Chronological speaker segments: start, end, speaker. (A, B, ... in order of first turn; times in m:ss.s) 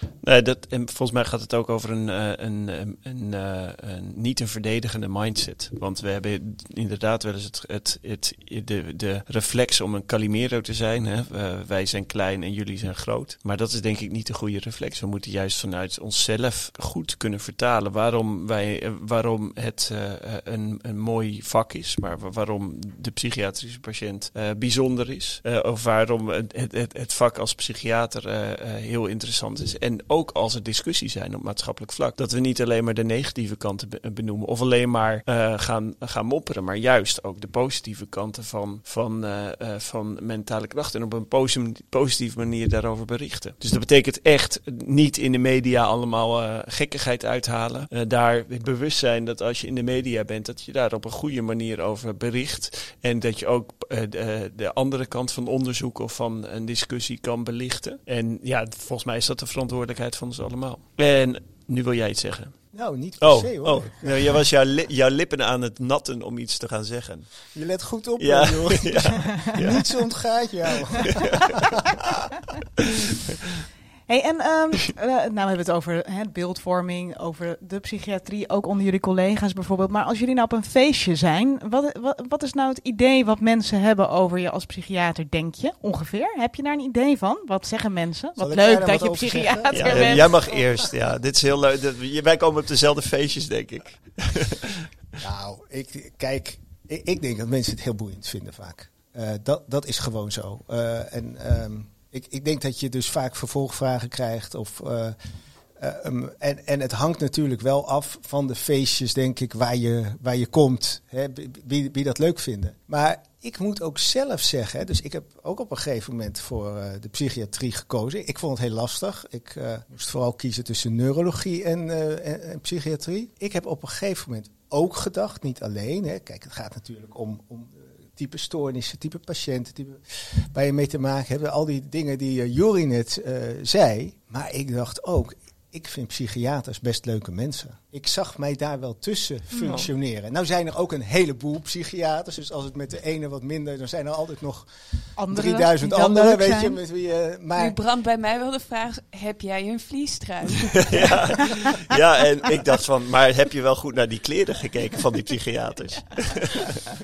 0:00.2-1:02.6 A
1:02.7-1:04.4 B
1:03.2-1:07.5 A
1:07.5-1:12.0 B
1:08.2-1:10.1 A
1:10.9-1:11.6 A
1:14.1-1:30.3 C
1:28.4-1:30.9 B
1:29.7-1:34.9 A
1:35.2-1:45.2 B
1:45.8-2:24.7 B
2:19.5-2:19.8 C
2:19.6-2:19.9 A
2:25.2-2:26.8 C
2:25.3-2:27.8 B
2:27.6-2:31.7 D
2:30.9-2:36.8 A